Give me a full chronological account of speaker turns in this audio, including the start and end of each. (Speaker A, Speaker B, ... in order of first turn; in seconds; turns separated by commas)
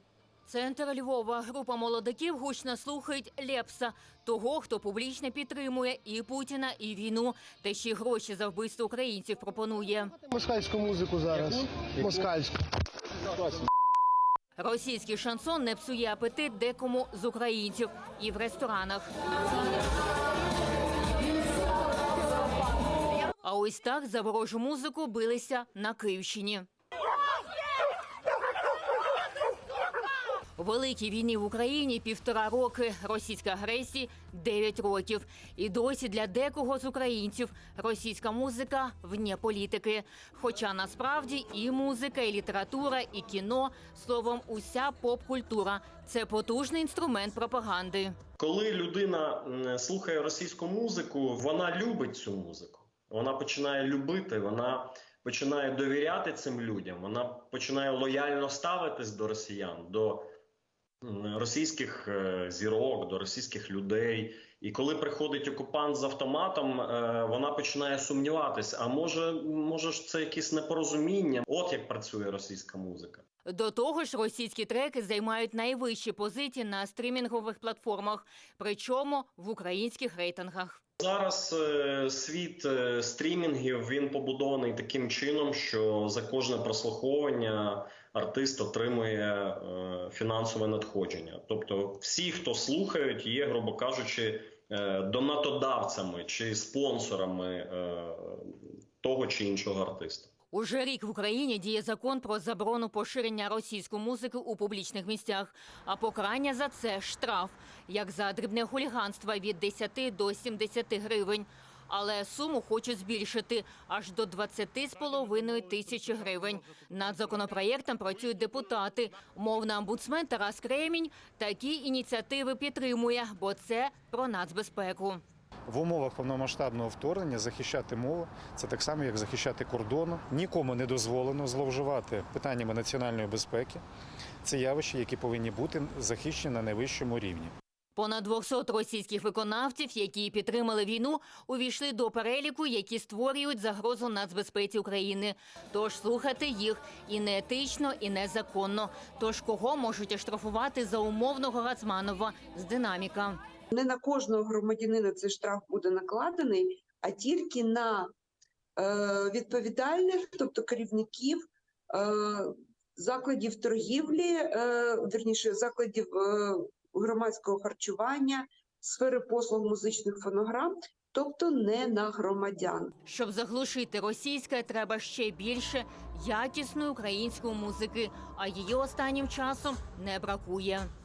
Speaker A: 0.5-10.1, Speaker B: 10.3-12.5, Speaker A: 14.6-19.1, Speaker A: 23.4-26.7, Speaker A: 30.6-48.2, Speaker C: 48.4-60.3, Speaker C: 61.0-73.2, Speaker A: 73.5-80.8, Speaker C: 81.0-100.3, Speaker A: 100.5-125.2, Speaker D: 125.7-133.8, Speaker D: 134.4-137.5, Speaker A: 138.0-153.4, Speaker E: 153.7-158.1, Speaker E: 158.8-172.9, Speaker A: 173.1-180.9